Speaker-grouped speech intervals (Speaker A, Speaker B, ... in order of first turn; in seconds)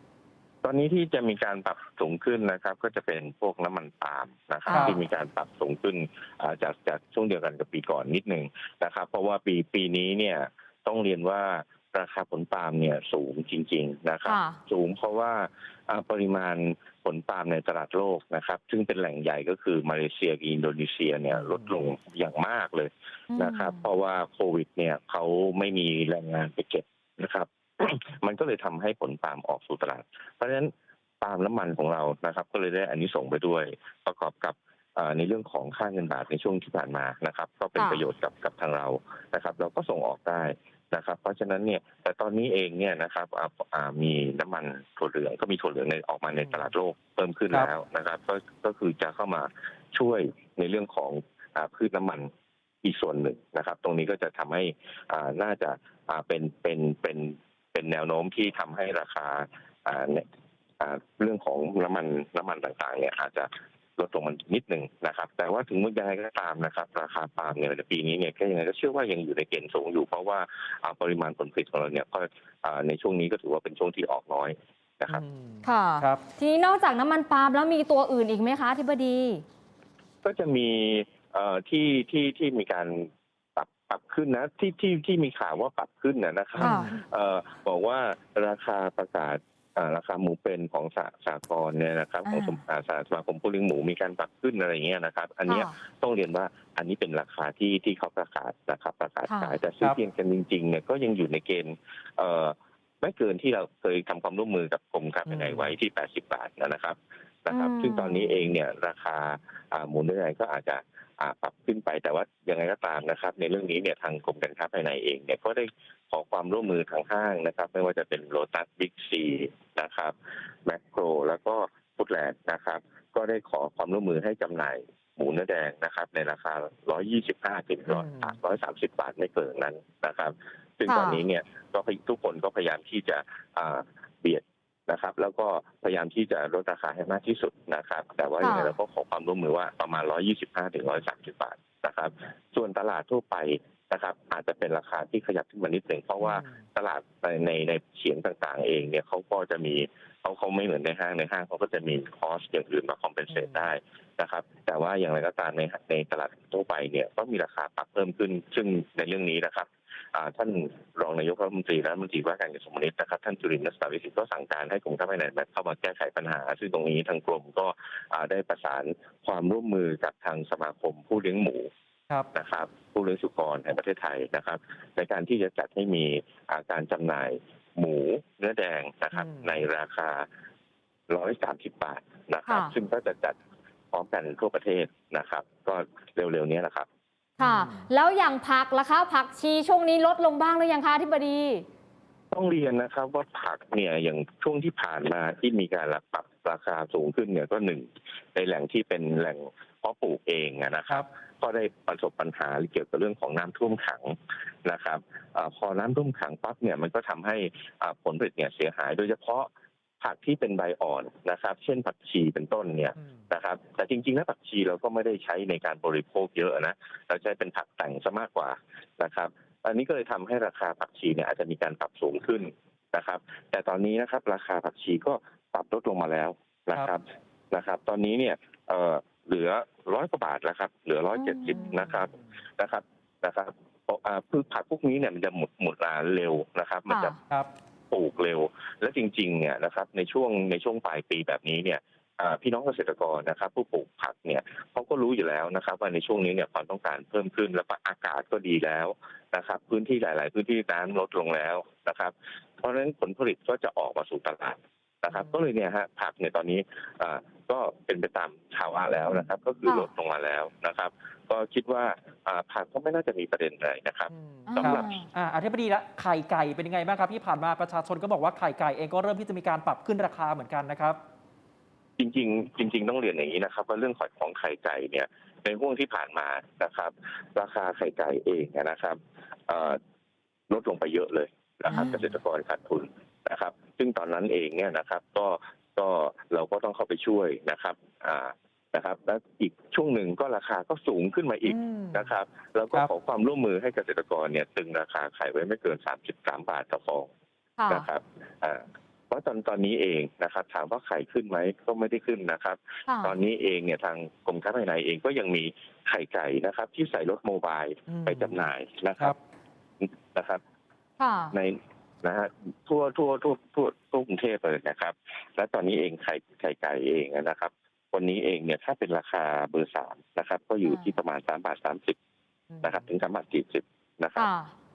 Speaker A: 0.6-30.7, 31.2-52.3, 52.8-60.2, 60.8-75.2, 80.2-171.7, 172.3-180.3, 181.1-183.4, 183.9-186.9, 192.3-209.5, 210.0-237.2, 237.9-265.0, 272.0-279.8, 280.5-297.1, 297.7-309.1, 309.8-310.4, 311.3-322.0, 322.6-324.3
Speaker B: 4.7-5.0, 14.2-14.6, 23.3-23.8, 37.8-38.0, 75.6-79.4, 86.6-86.9, 92.2-92.6, 95.5-95.7, 99.3-99.5, 107.5-108.5, 130.9-131.2, 138.4-138.7, 182.5-182.7, 187.4-191.7, 231.1-231.7, 236.9-237.2, 264.5-265.1, 297.6-297.9, 302.9-303.1, 311.0-311.3, 320.6-320.9, 324.2-324.5
Speaker C: 4.7-5.0, 21.3-21.7, 46.3-46.7, 75.1-76.2, 86.5-86.9, 105.3-105.7, 127.9-128.3, 146.2-146.6, 153.3-153.7, 179.1-179.7, 187.4-187.9, 213.0-213.2, 231.5-232.2, 255.1-255.4, 264.1-271.0, 281.7-282.0, 291.4-292.1, 307.9-308.4, 322.5-322.8